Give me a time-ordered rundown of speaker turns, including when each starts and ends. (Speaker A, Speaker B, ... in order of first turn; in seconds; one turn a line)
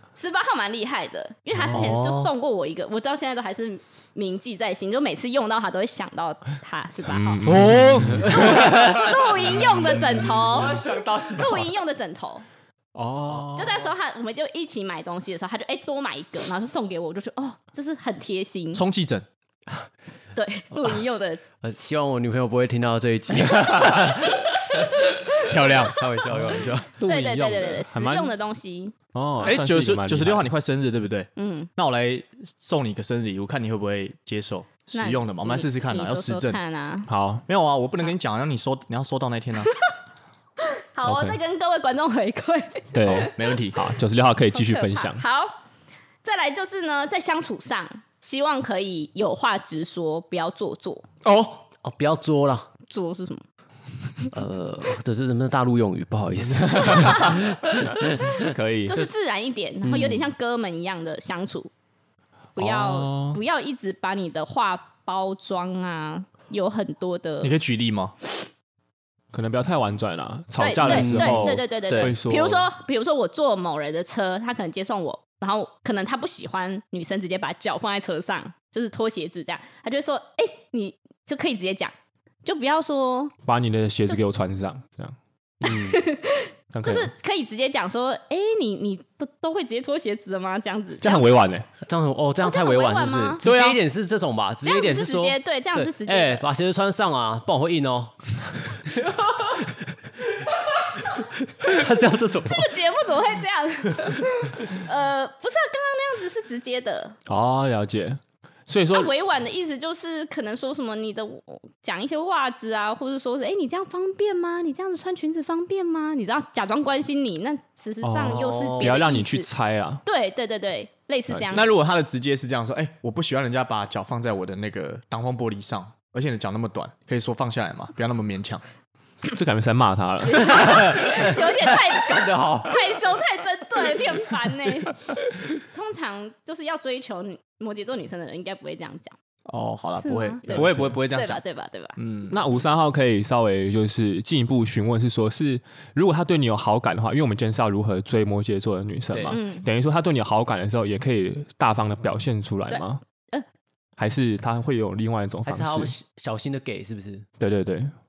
Speaker A: 0.1-7.6
Speaker B: 1.7-2.3
Speaker C: 7.0-8.8
Speaker D: 7.5-8.5
Speaker B: 7.6-9.1
Speaker A: 8.3-12.4
Speaker C: 9.4-11.7
Speaker C: 12.9-13.9
Speaker A: 13.4-18.8
Speaker D: 18.7-19.2
Speaker A: 20.3-21.4
Speaker B: 21.6-26.9
Speaker D: 25.5-26.6
Speaker C: 27.0-28.3
Speaker A: 27.0-28.9
Speaker C: 29.1-30.5
Speaker D: 29.4-36.6
Speaker A: 31.4-31.7
Speaker A: 34.9-37.1
Speaker C: 37.1-37.4
Speaker D: 37.5-39.7
Speaker A: 40.7-43.6
Speaker C: 41.0-41.4
Speaker C: 42.9-45.2
Speaker D: 43.0-43.8
Speaker A: 44.5-45.6
Speaker A: 46.2-51.0
Speaker D: 51.2-51.6
Speaker B: 51.8-52.7
Speaker A: 52.9-53.4
Speaker B: 54.3-58.4
Speaker C: 56.4-59.1
Speaker A: 56.9-57.3
Speaker A: 58.9-61.7
Speaker B: 59.8-60.3
Speaker A: 62.5-67.5
Speaker C: 62.6-63.4
Speaker D: 67.4-68.1
Speaker C: 69.3-72.7
Speaker A: 70.6-81.9
Speaker B: 70.8-72.1
Speaker A: 82.4-83.3
Speaker C: 83.4-85.9
Speaker A: 85.6-91.3
Speaker B: 85.7-85.9
Speaker C: 86.7-87.1
Speaker C: 91.0-91.7
Speaker B: 91.8-102.8
Speaker A: 92.4-93.4
Speaker D: 93.4-93.8
Speaker A: 94.6-96.5
Speaker A: 102.4-107.2
Speaker C: 107.3-109.1
Speaker A: 108.9-119.5
Speaker C: 118.0-120.0
Speaker B: 118.2-119.0
Speaker A: 120.0-121.7
Speaker C: 121.3-121.6
Speaker D: 121.5-128.6
Speaker C: 129.3-131.0
Speaker A: 130.2-139.1
Speaker B: 130.5-132.9
Speaker D: 139.5-141.4
Speaker A: 140.0-141.9
Speaker C: 140.5-141.0
Speaker D: 142.0-142.3
Speaker C: 142.3-153.0
Speaker B: 149.1-149.4
Speaker A: 149.3-149.7
Speaker A: 152.7-153.4
Speaker C: 154.0-155.9
Speaker B: 155.4-157.2
Speaker C: 157.4-157.9